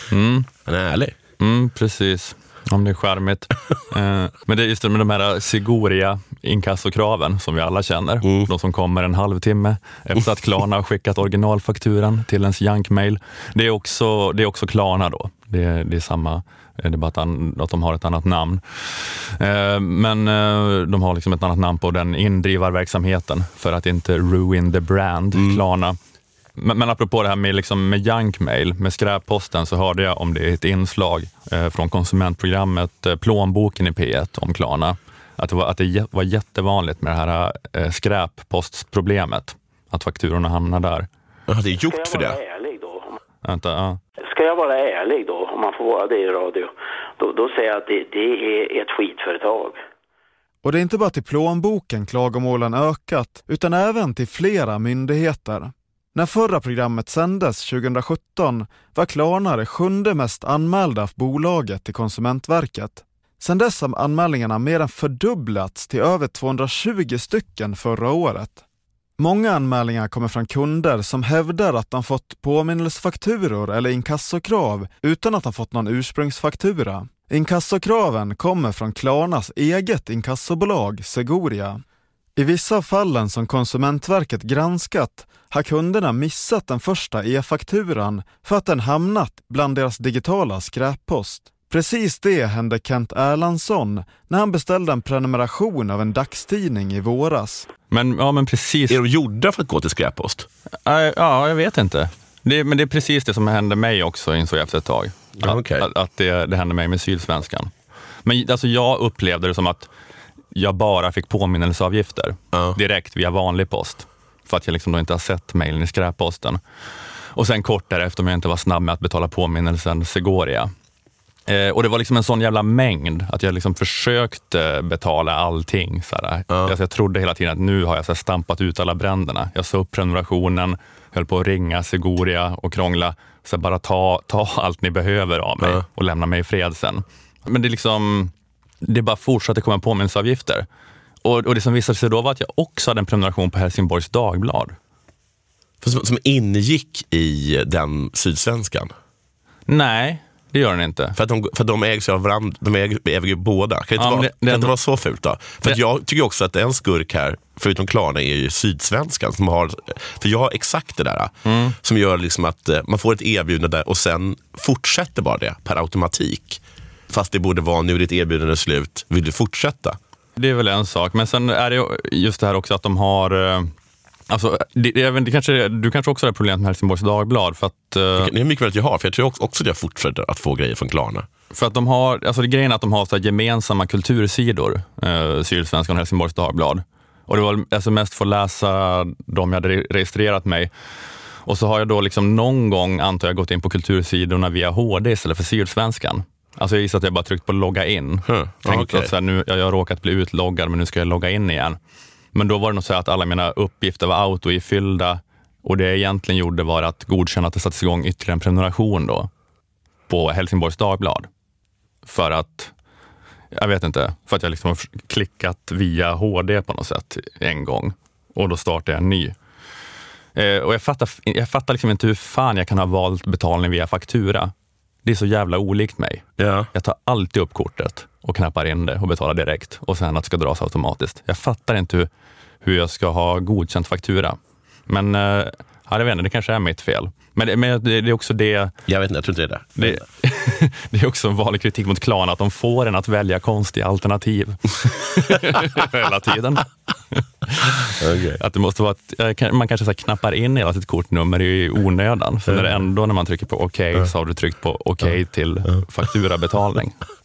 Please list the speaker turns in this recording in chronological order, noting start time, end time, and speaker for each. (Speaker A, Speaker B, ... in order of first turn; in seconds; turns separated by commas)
Speaker A: 0.1-0.5, Speaker B: 0.7-1.1, Speaker A: 1.4-26.0, Speaker B: 8.2-8.5, Speaker B: 25.4-25.6, Speaker A: 26.6-41.1, Speaker B: 41.5-42.4, Speaker C: 41.9-43.2, Speaker A: 43.5-44.0, Speaker C: 44.3-49.8, Speaker D: 50.6-68.6, Speaker D: 69.2-81.8, Speaker D: 82.4-97.7, Speaker A: 97.9-99.0, Speaker B: 98.9-100.5, Speaker A: 100.9-107.7, Speaker B: 105.4-105.9, Speaker A: 108.2-109.9, Speaker A: 110.5-116.6, Speaker B: 112.5-112.8, Speaker A: 117.3-120.7, Speaker A: 121.5-138.3, Speaker A: 138.8-140.7, Speaker A: 141.2-144.8, Speaker B: 145.8-148.9, Speaker A: 149.7-151.2, Speaker B: 151.2-170.0, Speaker A: 154.0-154.8, Speaker A: 161.4-161.8, Speaker A: 170.4-173.7, Speaker A: 174.3-178.3, Speaker B: 178.2-181.3, Speaker A: 181.5-190.7, Speaker A: 191.5-201.8, Speaker B: 198.3-199.1, Speaker A: 202.3-209.3, Speaker A: 210.1-211.3, Speaker A: 212.1-212.7, Speaker A: 213.5-219.3, Speaker A: 220.3-224.5, Speaker A: 225.1-232.1, Speaker B: 226.4-226.7, Speaker A: 232.6-238.7, Speaker B: 238.9-240.0, Speaker A: 239.8-257.0, Speaker B: 248.0-248.4, Speaker B: 252.5-252.8